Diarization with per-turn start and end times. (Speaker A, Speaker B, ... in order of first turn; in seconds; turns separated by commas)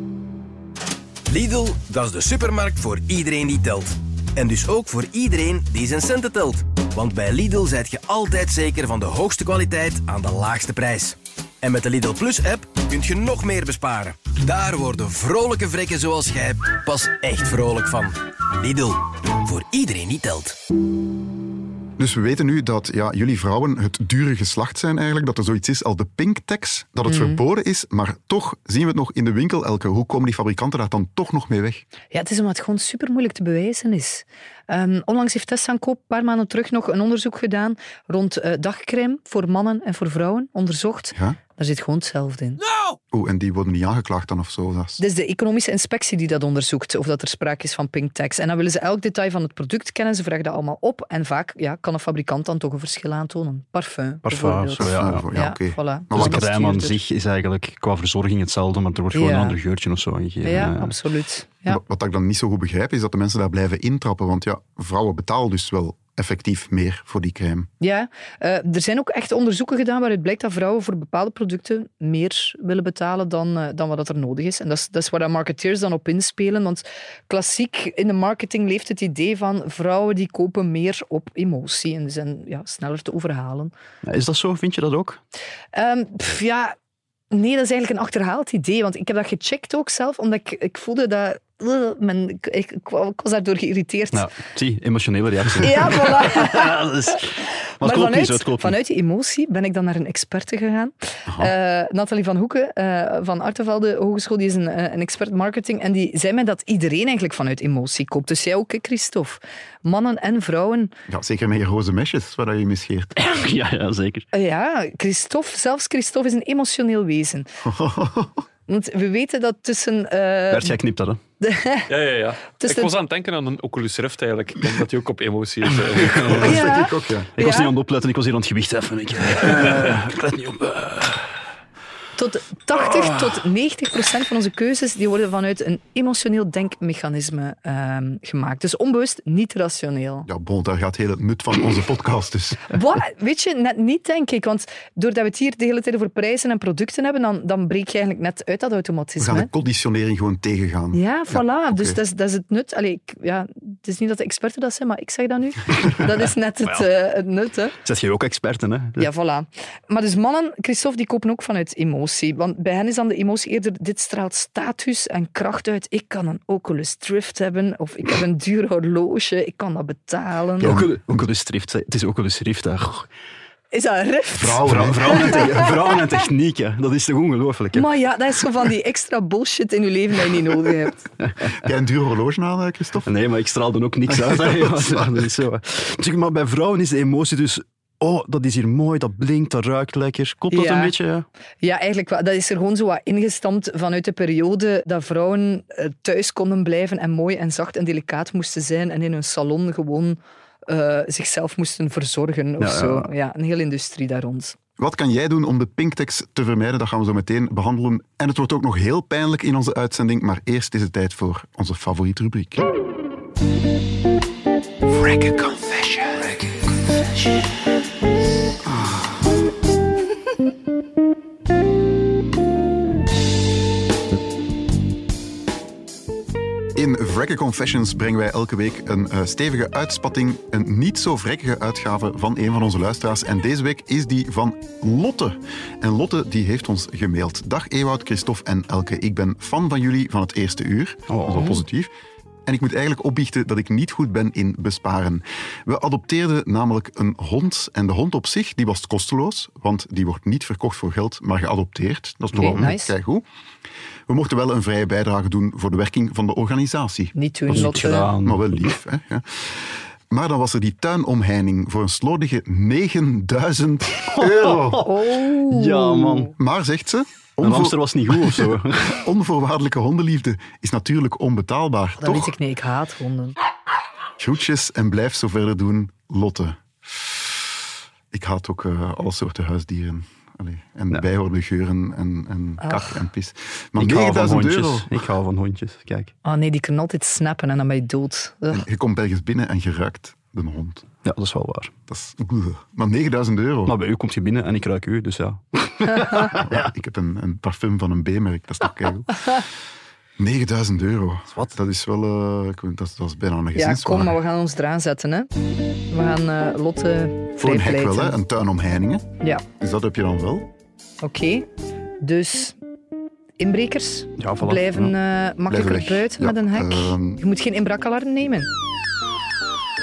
Speaker A: 1.3-20.6, Speaker B: 22.0-31.8, Speaker C: 27.1-27.4, Speaker C: 32.1-42.6, Speaker B: 41.1-41.4, Speaker B: 43.1-45.0, Speaker C: 45.0-57.0, Speaker D: 54.2-55.3, Speaker B: 54.8-56.5, Speaker D: 56.1-61.0, Speaker C: 59.1-59.6, Speaker C: 60.4-61.8, Speaker B: 61.7-67.7, Speaker C: 67.8-83.7, Speaker D: 84.0-85.2, Speaker C: 85.7-86.7, Speaker C: 87.3-94.2, Speaker D: 94.1-98.8, Speaker C: 95.6-97.2, Speaker C: 97.8-110.9, Speaker B: 111.1-113.2, Speaker D: 113.2-114.3, Speaker C: 114.3-117.5, Speaker B: 117.6-118.4, Speaker C: 118.7-120.8, Speaker D: 120.5-121.2, Speaker C: 121.4-121.9, Speaker E: 121.9-126.5, Speaker C: 122.6-122.9, Speaker D: 126.0-126.6, Speaker B: 126.2-127.3, Speaker C: 126.4-127.7, Speaker D: 127.3-131.2, Speaker C: 132.2-140.3, Speaker B: 140.3-142.7, Speaker C: 142.7-149.5, Speaker B: 149.2-152.0, Speaker C: 150.9-157.7, Speaker D: 157.8-159.1, Speaker C: 159.0-170.8, Speaker B: 170.6-171.3, Speaker D: 170.6-173.1, Speaker C: 173.7-175.7, Speaker B: 174.4-175.5, Speaker D: 174.6-177.9, Speaker C: 177.7-181.0, Speaker D: 181.2-181.5, Speaker B: 181.6-183.1, Speaker D: 183.0-191.2, Speaker B: 184.1-185.2, Speaker C: 190.5-190.9, Speaker C: 191.6-204.6, Speaker D: 202.6-203.1, Speaker B: 204.8-212.7, Speaker B: 214.9-216.2, Speaker B: 226.7-241.9, Speaker D: 241.1-241.6, Speaker B: 242.4-253.2, Speaker D: 252.3-252.7, Speaker C: 252.4-252.9, Speaker B: 254.1-264.9, Speaker C: 257.1-258.1, Speaker D: 257.5-258.6, Speaker D: 264.1-266.3, Speaker C: 264.8-266.3, Speaker B: 266.4-272.3, Speaker D: 267.4-269.0, Speaker C: 272.0-273.4, Speaker B: 274.2-277.5, Speaker B: 278.1-285.0, Speaker C: 282.6-283.0, Speaker D: 283.8-286.1, Speaker C: 286.2-288.6, Speaker B: 288.5-290.9, Speaker D: 291.0-291.7, Speaker B: 291.9-293.7, Speaker D: 293.7-296.7, Speaker B: 296.2-299.4, Speaker B: 300.2-304.2, Speaker C: 303.5-305.3, Speaker C: 305.9-308.2, Speaker B: 307.4-310.5, Speaker C: 311.0-311.5, Speaker C: 312.0-312.6, Speaker C: 313.4-318.5, Speaker D: 314.2-314.9, Speaker B: 315.5-317.2